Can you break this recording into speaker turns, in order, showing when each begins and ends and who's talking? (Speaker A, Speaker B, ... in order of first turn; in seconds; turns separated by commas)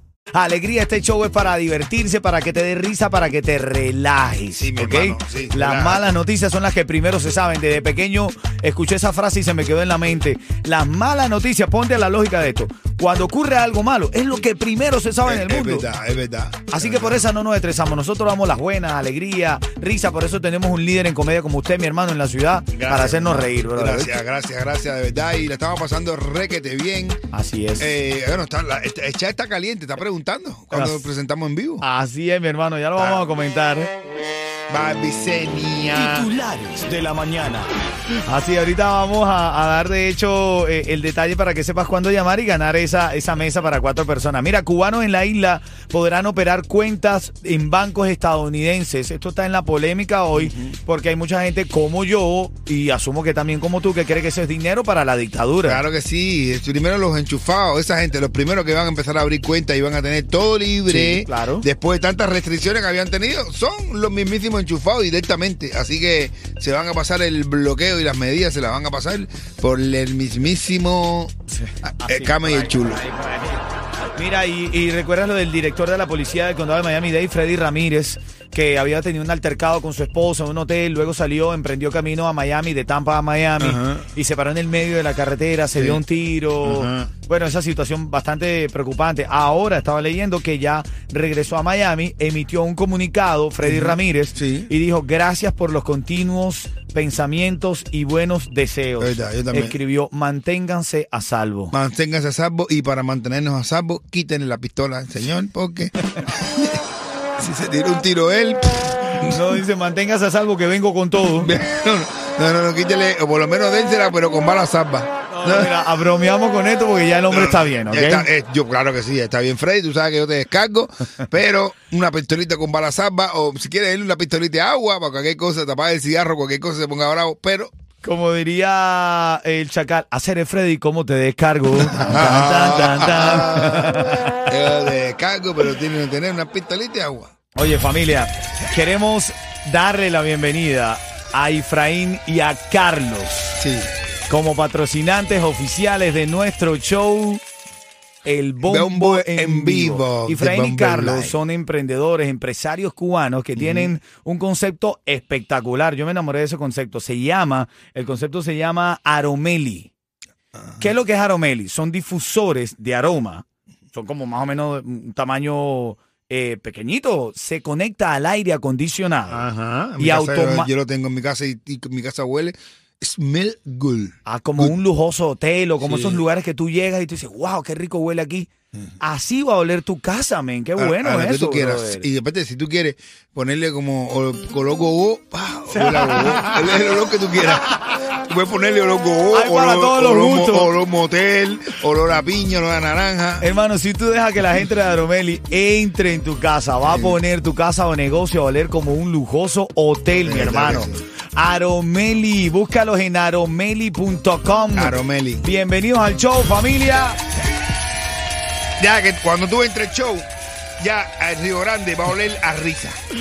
Speaker A: 0.3-15.9, Speaker B: 4.6-6.1, Speaker B: 15.2-17.2, Speaker A: 16.7-24.1, Speaker B: 22.7-27.2, Speaker A: 27.3-28.0, Speaker B: 27.8-31.8, Speaker A: 30.7-31.1, Speaker A: 31.8-33.9, Speaker B: 33.0-33.2, Speaker B: 34.7-36.3, Speaker A: 35.9-37.7, Speaker A: 38.2-55.8, Speaker B: 50.4-50.7, Speaker B: 55.7-71.3, Speaker A: 60.9-61.7, Speaker A: 71.5-101.7, Speaker B: 71.8-73.0, Speaker B: 83.6-84.1, Speaker B: 86.6-87.1, Speaker B: 93.6-94.7, Speaker B: 99.0-99.7, Speaker B: 101.7-106.8, Speaker B: 107.4-109.4, Speaker A: 109.2-111.5, Speaker B: 111.4-115.7, Speaker A: 115.3-118.3, Speaker B: 117.3-127.7, Speaker A: 128.0-134.4, Speaker B: 131.9-137.3, Speaker A: 137.5-143.6, Speaker B: 143.6-143.9, Speaker A: 144.3-147.4, Speaker A: 148.2-159.9, Speaker B: 148.6-151.3, Speaker B: 153.6-153.9, Speaker A: 160.8-169.4, Speaker B: 169.3-174.7, Speaker A: 170.0-170.7, Speaker A: 174.2-178.5, Speaker B: 175.8-176.2, Speaker A: 179.0-182.1, Speaker B: 180.8-187.7, Speaker A: 185.7-186.8, Speaker A: 187.6-188.0, Speaker B: 188.2-193.4, Speaker A: 189.3-190.7, Speaker A: 193.4-207.2, Speaker B: 196.9-197.2, Speaker B: 200.2-201.0, Speaker B: 204.7-205.4, Speaker B: 208.8-210.3, Speaker B: 210.8-213.0